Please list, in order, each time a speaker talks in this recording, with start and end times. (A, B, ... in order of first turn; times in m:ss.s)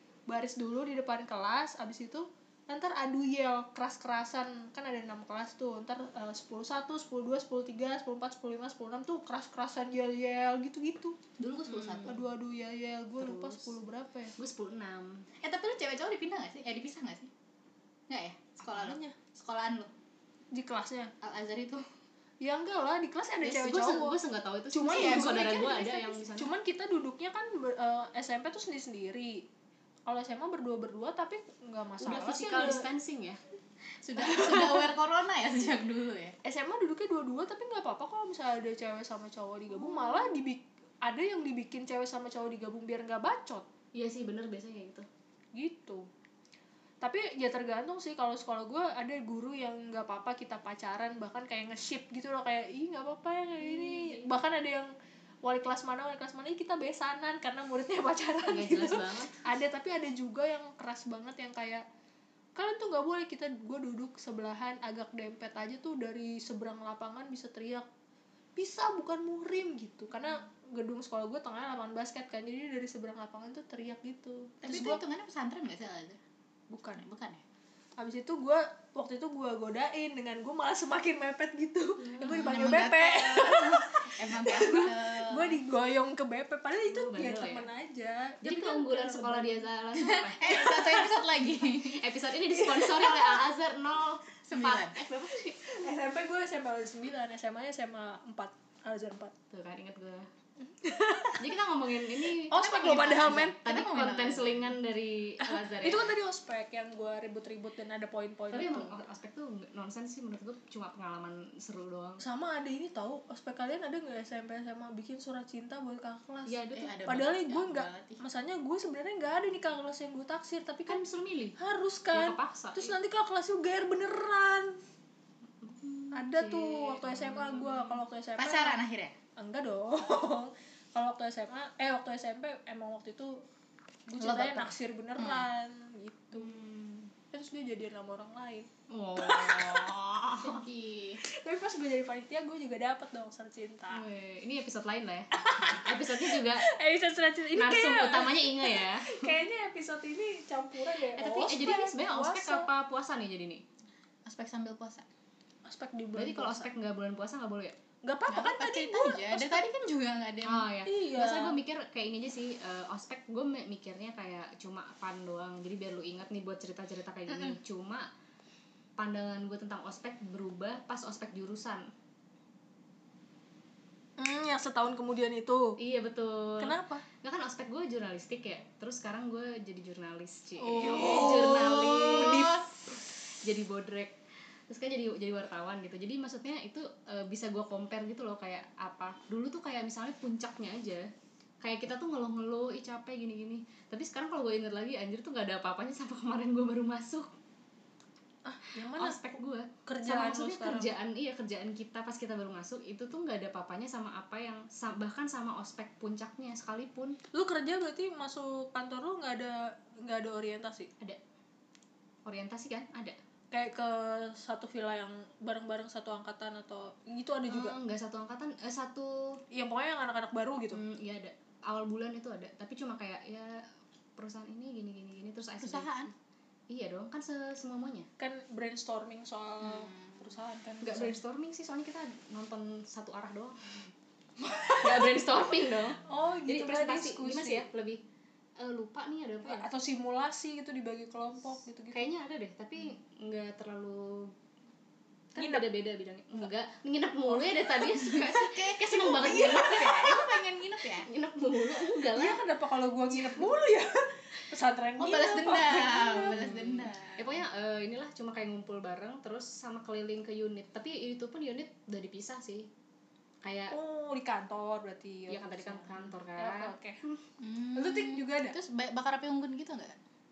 0:00.3-0:11.2 A
0:11.4-0:12.2 B
0:11.4-0:12.2 C
0:12.0-0:14.3 A
0:13.2-0:13.7 C
0:14.4-0:15.3 C
0:15.4-0:17.3 B
0:18.1-0:19.9 B
0:18.6-0:19.1 A
0:20.5-0:21.1 A
0:21.2-0:21.9 B
0:22.4-0:24.2 A
0:23.4-0:26.5 C
0:24.7-0:29.4 A
0:24.9-0:25.8 B
0:30.0-0:32.9 A
0:32.0-0:33.4 C
0:34.0-0:36.4 B
0:34.4-0:34.7 A
0:36.4-0:43.7 A
0:39.8-0:40.3 C
0:43.9-0:45.0 C
0:45.5-0:46.0 A
0:47.0-0:54.9 A
0:53.6-0:54.3 C
0:55.4-1:01.8 A
0:58.5-0:59.4 C
1:02.6-1:07.8 A
1:08.6-1:15.0 A
1:14.6-1:16.2 B
1:16.7-1:17.0 A
1:17.0-1:17.4 B
1:18.0-1:29.6 A
1:22.0-1:22.7 C
1:22.2-1:25.6 B
1:26.8-1:27.7 C
1:28.4-1:30.9 C
1:30.0-1:32.0 B
1:31.8-1:35.9 C
1:32.5-1:33.5 A
1:34.4-1:35.0 B
1:35.6-1:39.3 A
1:39.5-1:40.3 C
1:40.7-1:41.5 A
1:41.4-1:46.1 C
1:42.2-1:43.6 A
1:42.5-1:44.8 B
1:45.4-1:49.0 A
1:48.5-1:52.2 C
1:52.2-2:01.0 A
1:56.4-1:56.9 C
1:56.7-1:58.2 B
2:00.8-2:01.6 C
2:01.6-2:04.8 A
2:02.1-2:03.0 C
2:05.6-2:08.0 C
2:06.1-2:08.8 A
2:08.4-2:09.1 B
2:09.4-2:13.4 A
2:14.1-2:16.6 A
2:14.2-2:15.4 B
2:16.3-2:17.1 C
2:17.3-2:20.1 A
2:18.9-2:20.6 C
2:20.4-2:21.2 B
2:21.2-2:24.0 A
2:23.9-2:26.6 C
2:25.3-2:32.7 A
2:27.5-2:29.3 C
2:31.1-2:33.6 C
2:34.2-2:35.0 B
2:35.6-2:36.7 A
2:36.2-2:37.8 C
2:38.0-2:39.7 A
2:38.3-2:40.7 B
2:40.4-2:48.1 C
2:40.8-2:41.6 A
2:49.0-2:51.9 C
2:54.2-2:55.8 A
2:55.8-3:02.6 C
2:56.6-2:57.0 A
3:00.6-3:02.6 A
3:01.0-3:02.6 B
3:03.4-3:11.1 C
3:11.6-3:17.3 C
3:18.4-3:19.2 A
3:18.8-3:27.2 C
3:19.8-3:20.9 A
3:27.3-3:30.9 A
3:32.2-3:33.2 C
3:33.5-3:37.8 A
3:37.5-3:39.4 C
3:39.5-3:40.8 A
3:40.7-3:43.6 C
3:44.2-3:45.9 C
3:45.6-3:46.1 B
3:46.7-3:48.1 C
3:48.2-3:51.2 A
3:49.6-3:50.2 B
3:50.8-3:53.9 C
3:54.4-3:55.4 A
3:54.7-3:58.0 C
3:56.0-3:57.7 A
3:58.6-3:59.7 C
3:59.4-4:02.1 A
4:01.9-4:04.3 C
4:05.3-4:10.2 C
4:05.4-4:05.6 A
4:08.1-4:11.1 B
4:09.2-4:09.8 A
4:11.0-4:12.4 C
4:12.1-4:16.5 A
4:13.1-4:13.5 C
4:15.0-4:17.4 B
4:16.2-4:22.7 C
4:23.4-4:23.7 C
4:23.7-4:27.0 A
4:25.3-4:27.2 C
4:27.4-4:29.9 B
4:27.7-4:28.6 A